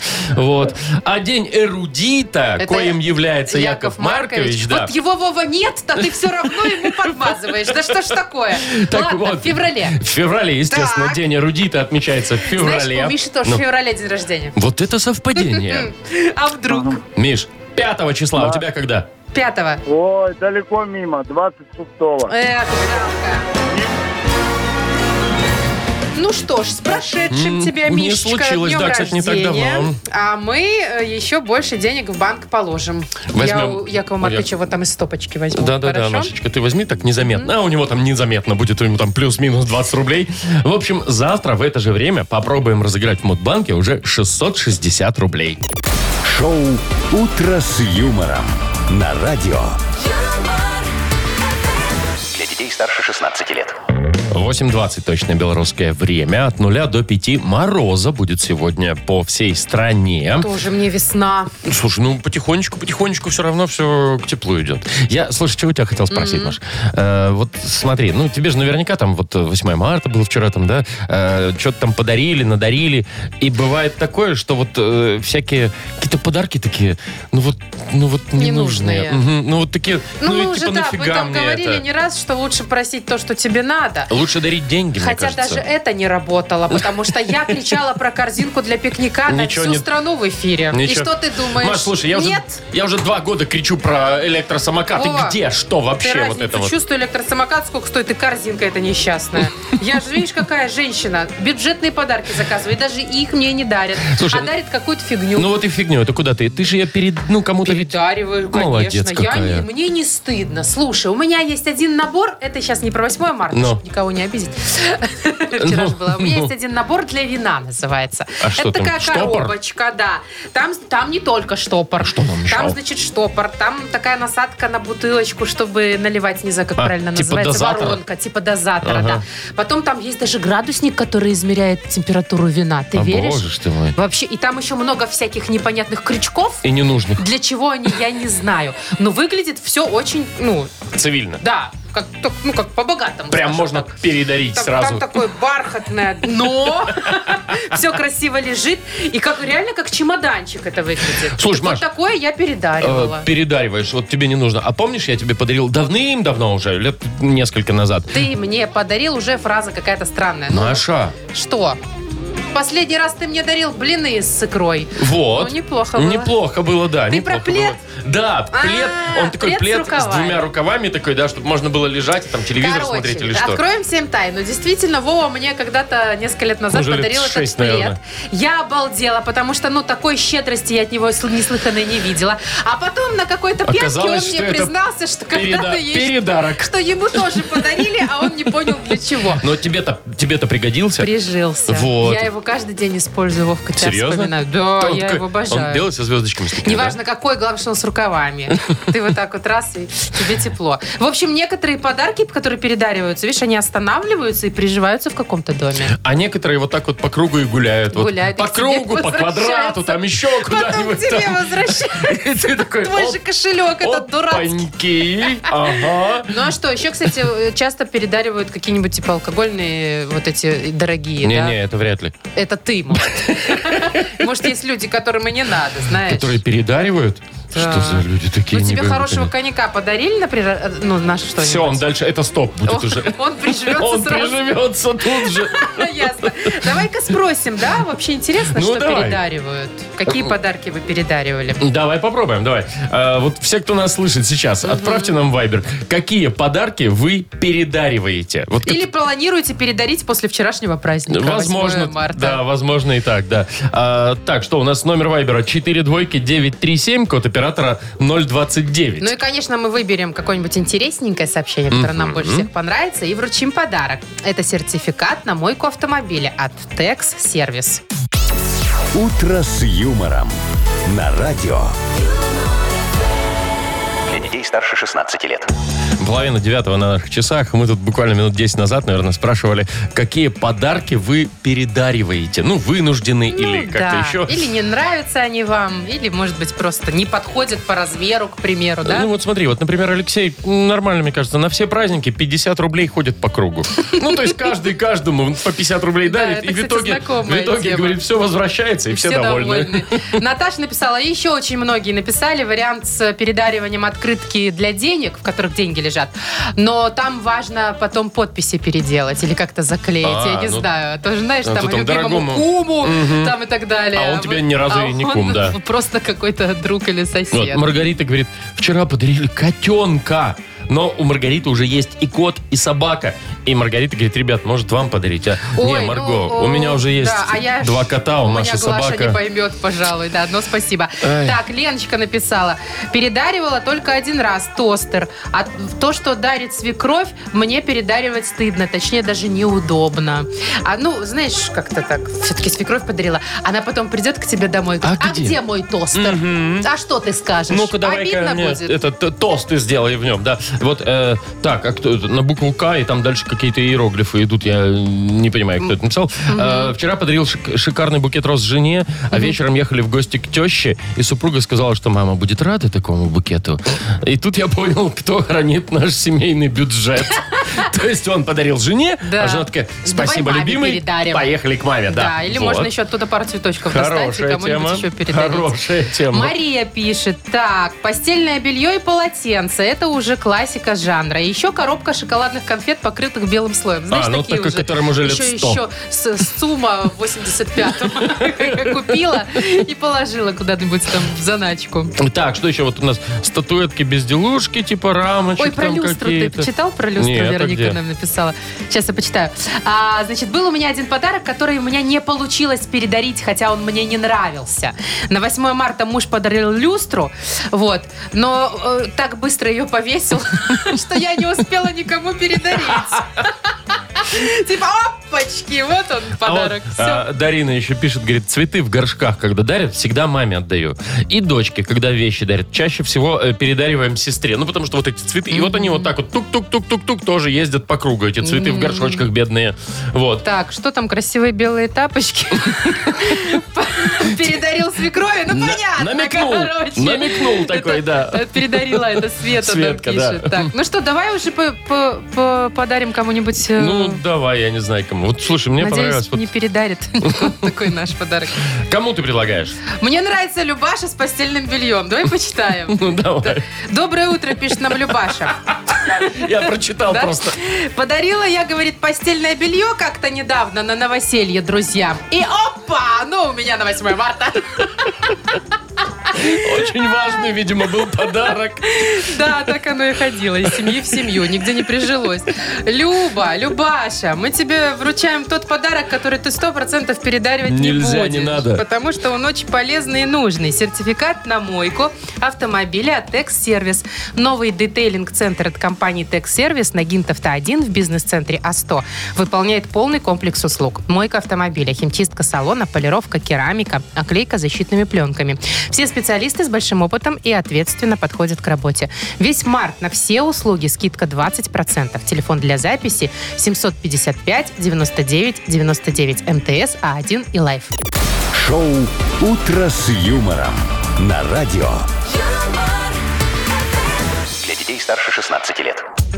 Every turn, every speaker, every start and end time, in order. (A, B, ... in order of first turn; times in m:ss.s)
0:00.2-0:04.9 A
0:02.6-0:03.0 B
0:03.5-0:10.0 B
0:06.2-0:07.8 A
0:08.5-0:13.6 A
0:10.7-0:11.2 B
0:12.5-0:14.6 B
0:14.6-0:15.9 A
0:15.4-0:17.0 B
0:17.1-0:19.1 A
0:18.4-0:18.6 C
0:19.3-0:19.8 B
0:19.8-0:22.4 C
0:22.3-0:23.5 B
0:23.6-0:23.9 C
0:26.1-0:36.3 B
0:27.3-0:30.0 A
0:33.3-0:34.5 A
0:35.5-0:45.6 A
0:37.2-0:37.5 B
0:46.2-0:49.8 D
0:52.3-0:53.7 E
0:54.3-1:00.5 A
1:00.4-1:01.5 B
1:01.6-1:21.8 A
1:06.1-1:06.6 B
1:18.3-1:19.2 B
1:20.2-1:24.1 B
1:24.1-1:25.6 A
1:25.0-1:32.6 B
1:26.7-1:27.7 A
1:29.3-1:29.9 A
1:30.7-1:36.7 A
1:34.9-1:35.4 B
1:36.0-1:45.5 B
1:44.1-1:44.5 A
1:45.4-1:49.6 A
1:47.6-2:13.4 B
1:53.5-1:53.8 A
1:55.6-1:56.5 A
1:58.4-1:59.5 A
2:02.0-2:02.8 A
2:06.8-2:08.0 A
2:08.8-2:09.2 A
2:12.9-2:13.9 A
2:13.9-2:16.6 B
2:16.6-2:17.2 A
2:17.2-2:20.7 B
2:20.9-2:21.4 A
2:21.4-2:24.0 B
2:23.3-2:25.2 A
2:24.5-2:33.3 B
2:26.9-2:27.2 A
2:31.3-2:31.8 A
2:32.8-2:38.2 A
2:38.1-2:41.8 B
2:40.5-2:41.1 A
2:42.5-2:46.3 B
2:45.0-2:53.6 A
2:47.1-2:47.8 B
2:48.5-2:50.4 B
2:52.6-3:09.4 B
2:56.7-2:58.0 A
3:03.6-3:04.7 A
3:05.3-3:07.7 A
3:09.4-3:11.1 A
3:11.0-3:15.8 B
3:11.7-3:12.2 A
3:13.8-3:17.0 A
3:16.6-3:25.9 B
3:25.9-3:36.4 A
3:27.9-3:34.6 B
3:35.3-3:35.7 B
3:36.2-3:41.6 B
3:41.2-3:42.2 A
3:42.3-3:46.4 B
3:43.1-3:44.2 A
3:46.0-3:49.3 A
3:47.5-3:51.9 B
3:51.4-3:56.6 A
3:52.6-3:54.5 B
3:55.1-4:01.6 B
3:58.5-3:59.2 A
4:01.6-4:08.9 A
4:04.6-4:05.1 B
4:08.6-4:12.4 B
4:11.1-4:19.1 A
4:19.0-4:27.8 B
4:21.7-4:22.5 A
4:28.9-4:31.8 D
4:34.1-4:35.5 E
4:36.0-4:44.3 A
4:43.3-4:49.1 B
4:48.8-5:00.1 A
4:56.0-4:58.0 B
4:58.9-5:17.7 B
5:10.0-5:10.7 A
5:11.4-5:13.3 A
5:13.9-5:15.6 A
5:17.3-5:29.2 A
5:25.5-5:48.7 B
5:31.0-5:31.4 A
5:44.8-5:45.4 A
5:45.9-5:46.7 A
5:47.5-6:12.7 A
5:56.3-5:56.7 B
6:09.0-6:11.3 B
6:11.9-6:15.5 B
6:13.6-6:16.3 A
6:16.1-6:31.9 B
6:23.9-6:25.6 A
6:27.9-6:28.9 A
6:32.0-6:37.8 A
6:35.4-6:57.0 B
6:56.2-7:10.2 A
7:05.3-7:05.9 B
7:08.2-7:09.0 B
7:10.2-7:24.0 B
7:12.9-7:13.4 A
7:14.0-7:14.3 A
7:15.3-7:20.5 A
7:23.6-7:26.3 A
7:25.6-7:28.4 B
7:27.0-7:27.5 A
7:28.6-7:29.6 A
7:29.7-7:36.3 B
7:32.7-7:33.4 A
7:35.5-7:37.4 A
7:36.9-7:45.1 B
7:46.1-7:49.1 A
7:48.6-8:27.7 B
7:50.6-7:50.9 A
7:57.4-7:58.6 A
8:28.3-8:31.9 D
8:34.4-8:35.8 E